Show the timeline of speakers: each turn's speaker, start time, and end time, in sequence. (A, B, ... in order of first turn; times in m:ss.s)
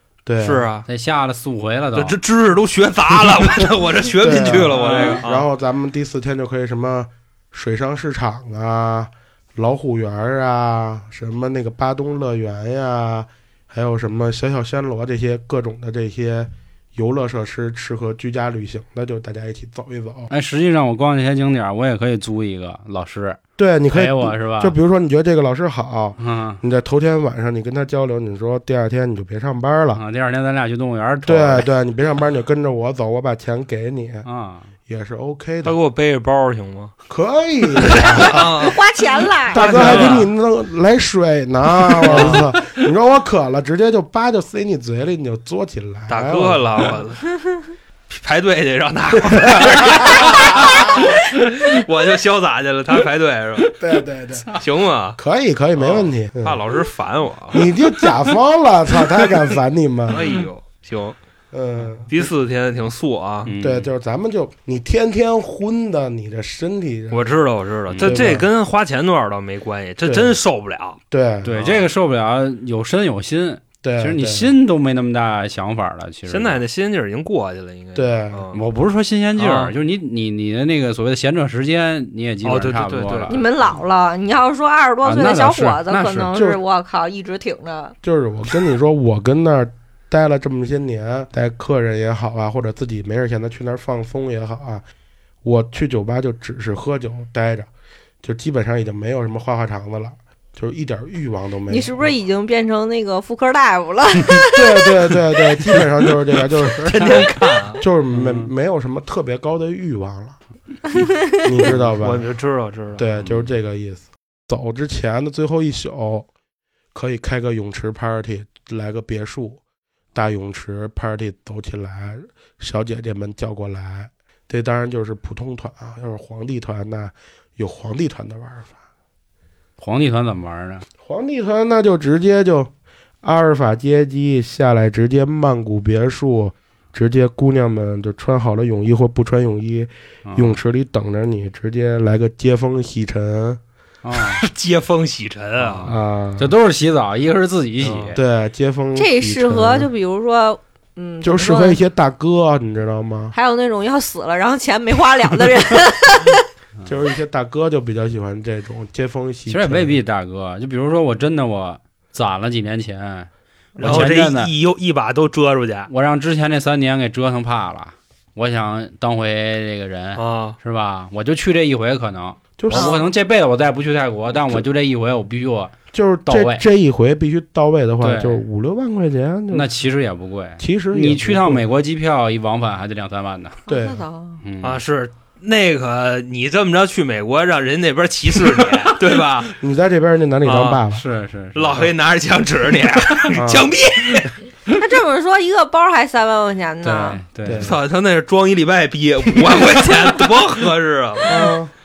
0:00.3-0:00.7 A
0:00.4-0:00.9 B
0:00.9-0:02.2 C
0:02.0-0:05.5 B
0:04.2-0:20.3 A
0:04.6-0:05.2 C
0:20.3-0:23.4 C
0:23.6-0:30.0 A
0:23.9-0:24.7 C
0:26.2-0:26.6 C
0:30.0-0:31.7 C
0:31.3-0:34.3 A
0:34.2-0:34.7 C
0:34.9-0:35.8 A
0:35.6-0:37.0 B
0:37.1-0:38.7 A
0:37.8-0:38.8 B
0:37.9-0:40.0 D
0:39.5-0:40.3 B
0:39.5-0:47.0 A
0:42.0-0:42.4 B
0:42.1-0:42.4 C
0:46.1-0:47.2 B
0:47.4-0:47.7 D
0:48.1-0:53.8 B
0:49.1-0:51.1 A
0:50.4-0:51.0 D
0:53.8-0:54.5 A
0:54.6-0:55.2 B
0:55.2-0:56.6 A
0:55.8-0:57.7 B
0:57.5-1:00.3 A
1:00.1-1:01.2 B
1:01.5-1:02.2 A
1:02.1-1:03.5 B
1:03.4-1:03.9 C
1:03.6-1:07.3 A
1:07.1-1:11.0 B
1:07.9-1:08.2 C
1:08.0-1:08.5 A
1:10.0-1:10.3 A
1:11.1-1:11.6 A
1:11.4-1:16.6 C
1:11.6-1:11.9 B
1:13.8-1:14.5 A
1:16.3-1:18.6 B
1:18.0-1:18.5 A
1:18.5-1:23.4 C
1:19.4-1:19.7 B
1:22.4-1:23.4 B
1:23.3-1:28.0 D
1:25.0-1:26.3 C
1:26.3-1:26.6 A
1:28.0-1:34.8 A
1:35.4-1:37.7 A
1:38.2-1:42.1 A
1:41.7-1:45.8 D
1:44.5-1:50.4 A
1:46.4-1:47.8 B
1:48.1-1:48.5 C
1:51.4-1:52.3 A
1:51.8-1:53.0 B
1:53.0-1:56.3 A
1:53.2-1:53.5 C
1:56.9-1:59.6 A
2:00.1-2:08.8 A
2:09.8-2:10.8 C
2:11.0-2:12.7 A
2:13.2-2:23.6 A
2:20.2-2:20.6 C
2:24.0-2:24.5 C
2:24.1-2:25.9 B
2:25.7-2:28.2 C
2:25.8-2:26.5 A
2:27.8-2:28.2 B
2:28.1-2:29.9 A
2:29.0-2:31.8 D
2:31.2-2:33.4 A
2:33.3-2:36.5 D
2:36.8-2:40.0 A
2:39.5-2:44.5 C
2:43.8-2:44.1 A
2:43.8-2:45.9 B
2:45.9-2:56.6 C
2:50.2-2:50.6 B
2:52.6-2:53.0 A
2:52.7-2:53.0 B
2:55.9-2:59.7 A
2:58.0-2:58.4 C
2:59.5-3:03.6 C
3:00.6-3:01.7 A
3:03.7-3:04.0 A
3:03.7-3:04.4 D
3:04.4-3:04.8 C
3:04.6-3:09.5 B
3:09.6-3:11.0 A
3:10.4-3:10.8 B
3:11.0-3:11.9 C
3:11.5-3:14.3 B
3:13.4-3:13.7 A
3:14.7-3:17.2 D
3:16.8-3:17.7 C
3:17.4-3:17.8 A
3:17.6-3:21.5 B
3:21.3-3:21.7 A